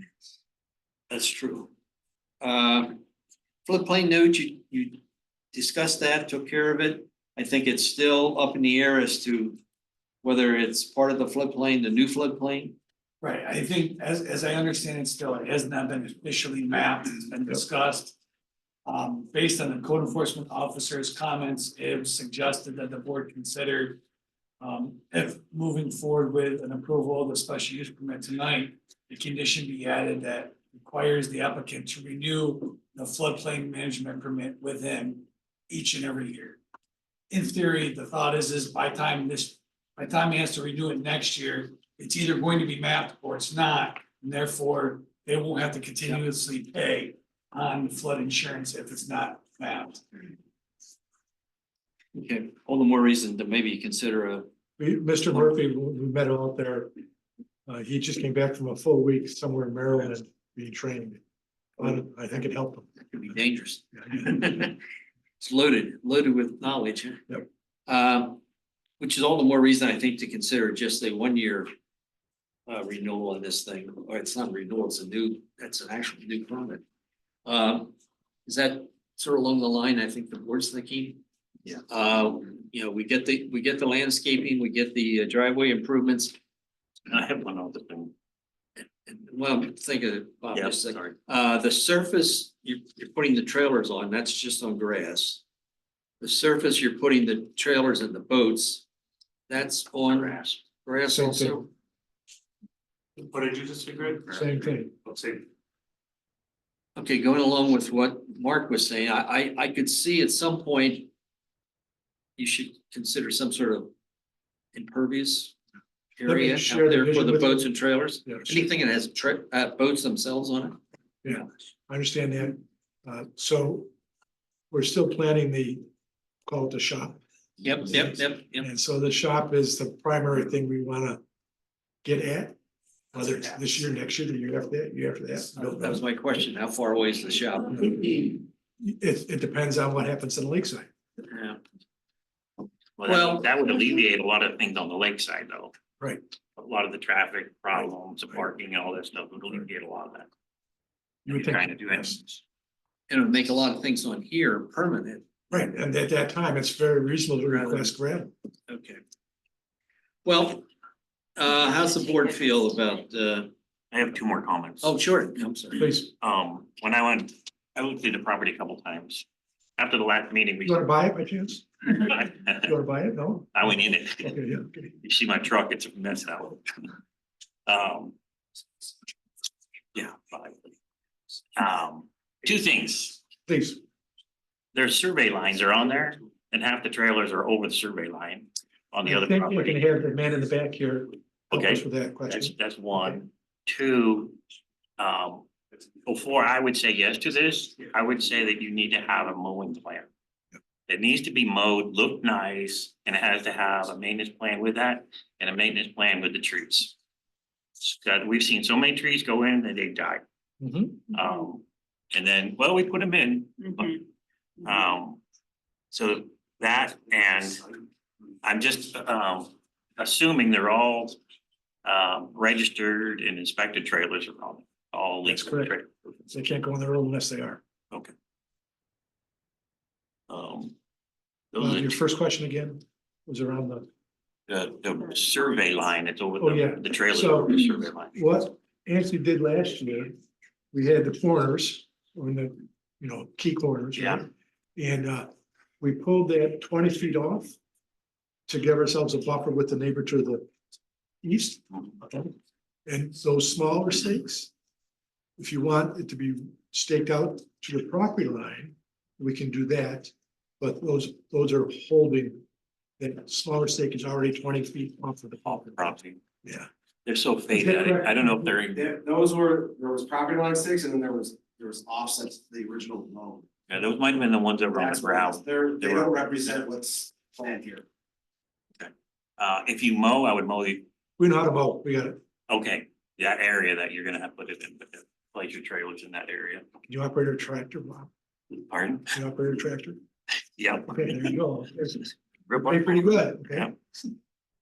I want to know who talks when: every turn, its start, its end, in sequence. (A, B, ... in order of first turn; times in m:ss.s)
0:01.1-0:01.7 A
0:02.4-0:03.0 A
0:03.6-0:05.0 A
0:05.5-0:09.6 A
0:10.2-0:12.8 A
0:13.2-0:18.2 B
0:18.8-0:24.0 B
0:24.6-0:36.6 B
0:37.3-0:50.0 B
0:52.1-0:54.5 A
0:54.8-0:56.9 C
0:57.7-1:01.2 C
1:01.8-1:02.9 C
1:03.1-1:04.8 A
1:04.0-1:04.3 C
1:05.4-1:08.4 A
1:09.0-1:11.7 A
1:12.7-1:16.8 A
1:17.4-1:17.9 A
1:18.4-1:21.2 A
1:21.9-1:26.4 A
1:27.1-1:28.1 D
1:29.0-1:35.4 A
1:30.5-1:31.1 D
1:36.2-1:38.8 A
1:39.5-1:41.7 A
1:41.1-1:41.6 C
1:43.2-1:44.4 D
1:44.3-1:44.9 C
1:45.0-1:45.4 D
1:47.0-1:51.1 A
1:52.4-1:53.9 A
1:54.7-1:55.5 A
1:56.2-2:00.8 A
1:56.2-1:58.6 C
2:01.2-2:03.9 C
2:04.7-2:05.8 C
2:06.4-2:07.2 C
2:07.6-2:08.7 A
2:08.5-2:11.2 C
2:12.0-2:12.6 C
2:13.1-2:16.0 C
2:15.6-2:18.1 A
2:18.0-2:18.3 C
2:18.8-2:20.9 C
2:21.3-2:21.6 A
2:23.0-2:25.7 D
2:23.1-2:23.5 A
2:26.6-2:30.3 D
2:31.2-2:32.2 D
2:31.2-2:32.4 C
2:33.1-2:35.2 A
2:35.5-2:38.3 C
2:37.5-2:37.9 A
2:38.7-2:39.0 A
2:40.2-2:40.6 A
2:41.4-2:43.5 A
2:43.9-2:44.9 D
2:44.8-2:45.9 A
2:45.8-2:46.1 C
2:46.2-2:49.2 D
2:49.8-2:50.8 D
2:50.6-2:54.9 C
2:52.0-2:52.7 D
2:53.5-2:54.4 D
2:55.0-2:56.6 D
2:57.6-2:58.1 D
2:59.9-3:00.7 D
3:01.6-3:03.2 D
3:03.5-3:03.8 C
3:04.7-3:09.8 D
3:09.0-3:13.2 C
3:11.5-3:14.4 D
3:15.0-3:15.4 D
3:16.0-3:20.1 D
3:20.9-3:26.9 D
3:27.8-3:30.2 D
3:30.6-3:31.0 C
3:31.1-3:34.0 D
3:34.6-3:35.2 D
3:35.9-3:37.6 D
3:38.4-3:41.2 D
3:41.8-3:45.9 D
3:45.2-3:45.8 C
3:46.3-3:47.6 C
3:50.3-3:50.7 D
3:51.5-3:52.0 D
3:51.6-3:53.8 C
3:54.5-3:58.1 D
3:56.4-4:00.2 C
4:00.7-4:05.3 C
4:04.0-4:04.2 D
4:05.8-4:07.5 C
4:08.5-4:10.5 C
4:11.2-4:12.3 C
4:12.8-4:14.5 C
4:15.4-4:22.4 C
4:23.0-4:26.7 C
4:25.8-4:26.2 D
4:27.0-4:28.8 D
4:27.5-4:28.5 C
4:28.7-4:33.5 E
4:33.7-4:36.1 D
4:34.7-4:37.8 E
4:38.8-4:40.8 D
4:41.2-4:42.2 C
4:42.5-4:46.6 D
4:46.9-4:48.1 C
4:48.7-4:49.1 D
4:49.1-4:50.0 C
4:50.6-4:51.4 D
4:50.8-4:53.7 C
4:52.5-4:53.8 D